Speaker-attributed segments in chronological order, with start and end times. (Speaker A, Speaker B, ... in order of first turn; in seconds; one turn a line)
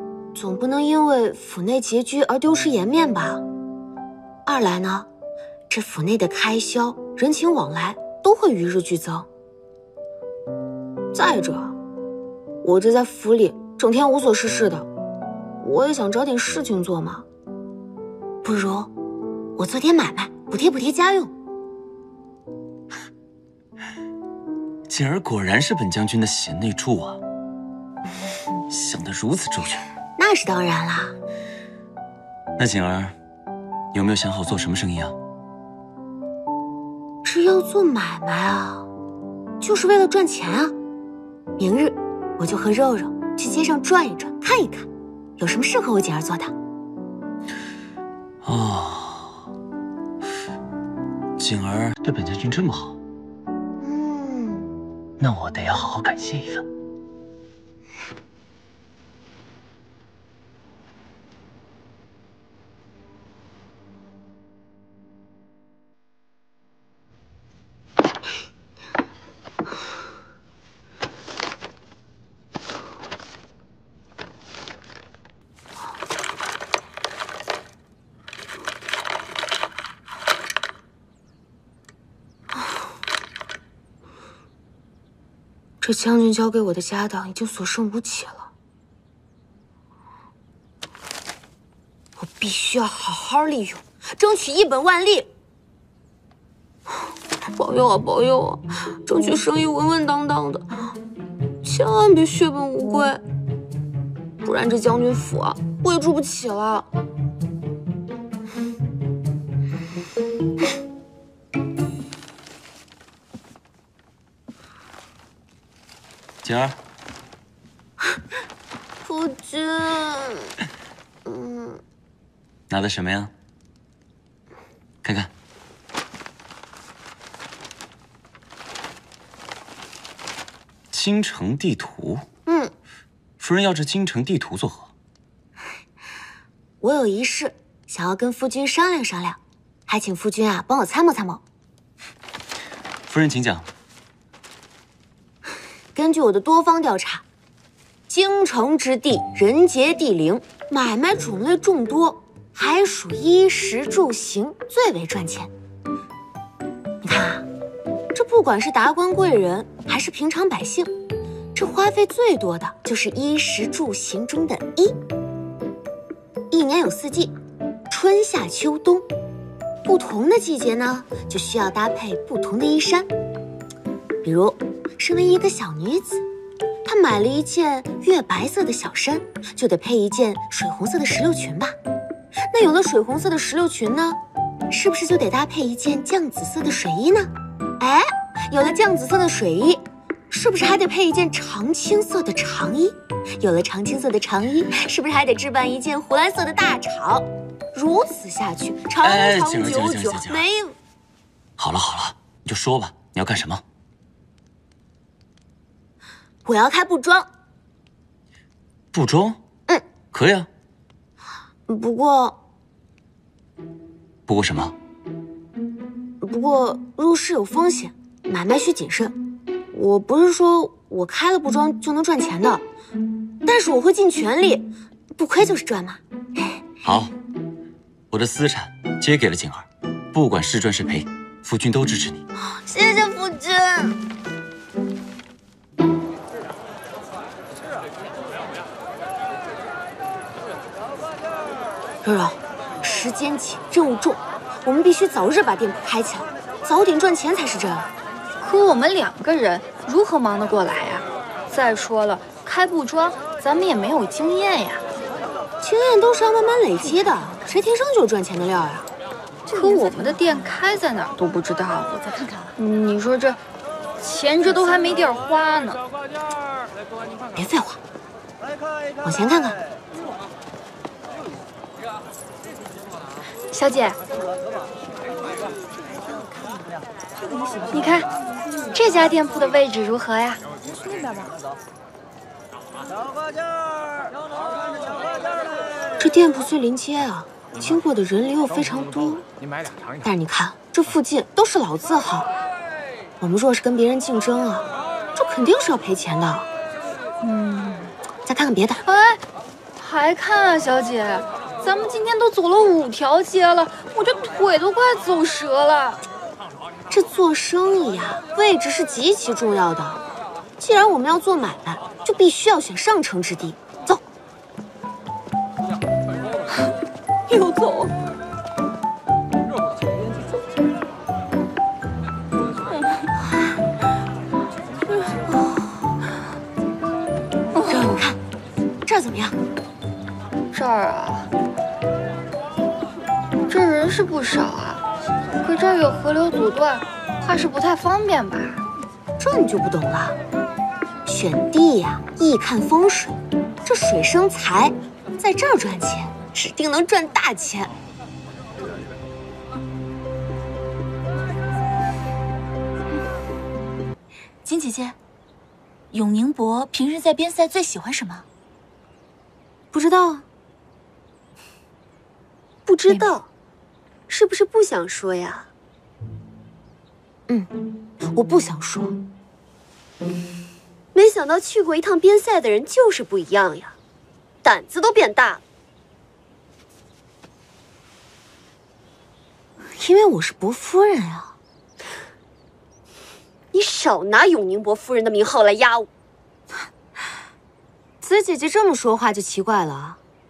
Speaker A: 0.3-3.4
Speaker A: 4.5-5.1
Speaker A: 5.7-9.3
Speaker A: 11.1-11.8
Speaker A: 12.6-14.9
Speaker A: 15.6-17.3
Speaker A: 18.4-18.9
Speaker A: 19.6-21.3
Speaker B: 24.9-27.2
Speaker B: 28.7-29.8
Speaker A: 30.2-31.2
Speaker B: 32.6-33.1
Speaker B: 33.9-35.2
Speaker A: 37.2-38.9
Speaker A: 39.6-40.8
Speaker A: 41.6-46.5
Speaker B: 48.4-49.4
Speaker B: 51.4-53.0
Speaker A: 53.8-54.7
Speaker B: 55.2-56.7
Speaker A: 85.8-88.5
Speaker A: 92.2-95.3
Speaker A: 97.5-100.8
Speaker A: 101.6-103.2
Speaker A: 104.4-106.9
Speaker B: 116.4-116.8
Speaker A: 119.0-120.5
Speaker A: 121.2-121.8
Speaker B: 122.7-123.3
Speaker B: 125.0-125.3
Speaker B: 130.9-132.2
Speaker A: 132.5-132.7
Speaker B: 133.4-134.9
Speaker A: 136.8-141.4
Speaker B: 143.1-143.7
Speaker A: 145.9-147.2
Speaker A: 148.1-155.5
Speaker A: 157.0-157.5
Speaker A: 158.1-160.9
Speaker A: 161.6-165.0
Speaker A: 166.5-167.3
Speaker A: 167.9-169.1
Speaker A: 169.8-173.1
Speaker A: 174.2-176.3
Speaker A: 176.8-181.8
Speaker A: 182.5-184.2
Speaker A: 184.7-200.8
Speaker B: 199.0-200.5
Speaker B: 201.6-203.6
Speaker A: 206.4-207.3
Speaker B: 208.9-209.4
Speaker B: 210.1-210.5
Speaker A: 211.7-212.4
Speaker B: 214.3-214.8
Speaker A: 216.2-219.2
Speaker A: 219.7-222.7
Speaker A: 223.4-226.6
Speaker B: 226.8-227.1
Speaker B: 228.1-232.2
Speaker A: 232.4-234.0
Speaker A: 242.0-247.9
Speaker C: 248.4-254.8
Speaker A: 255.6-258.9
Speaker C: 259.5-263.4
Speaker C: 264.0-265.8
Speaker A: 267.4-267.8
Speaker A: 269.0-269.6
Speaker C: 273.5-274.0
Speaker C: 277.7-278.1
Speaker C: 278.7-280.4
Speaker A: 286.0-289.2
Speaker A: 290.0-292.3
Speaker A: 293.2-296.5
Speaker C: 297.2-297.9
Speaker A: 298.2-298.8
Speaker C: 298.8-299.2
Speaker C: 299.8-306.0
Speaker A: 306.9-310.0
Speaker A: 310.6-314.0
Speaker C: 327.6-328.0
Speaker A: 327.6-328.2
Speaker A: 328.9-329.4
Speaker C: 330.5-331.3
Speaker C: 333.5-334.8
Speaker C: 335.4-338.6
Speaker A: 339.2-340.2
Speaker A: 341.1-347.7
Speaker D: 354.4-355.0
Speaker D: 355.9-358.3
Speaker A: 359.7-360.2
Speaker E: 362.7-363.3
Speaker E: 364.1-365.5
Speaker A: 368.1-369.0
Speaker E: 370.9-373.8
Speaker E: 374.4-375.4
Speaker A: 379.8-381.4
Speaker E: 383.5-385.9
Speaker A: 388.0-390.0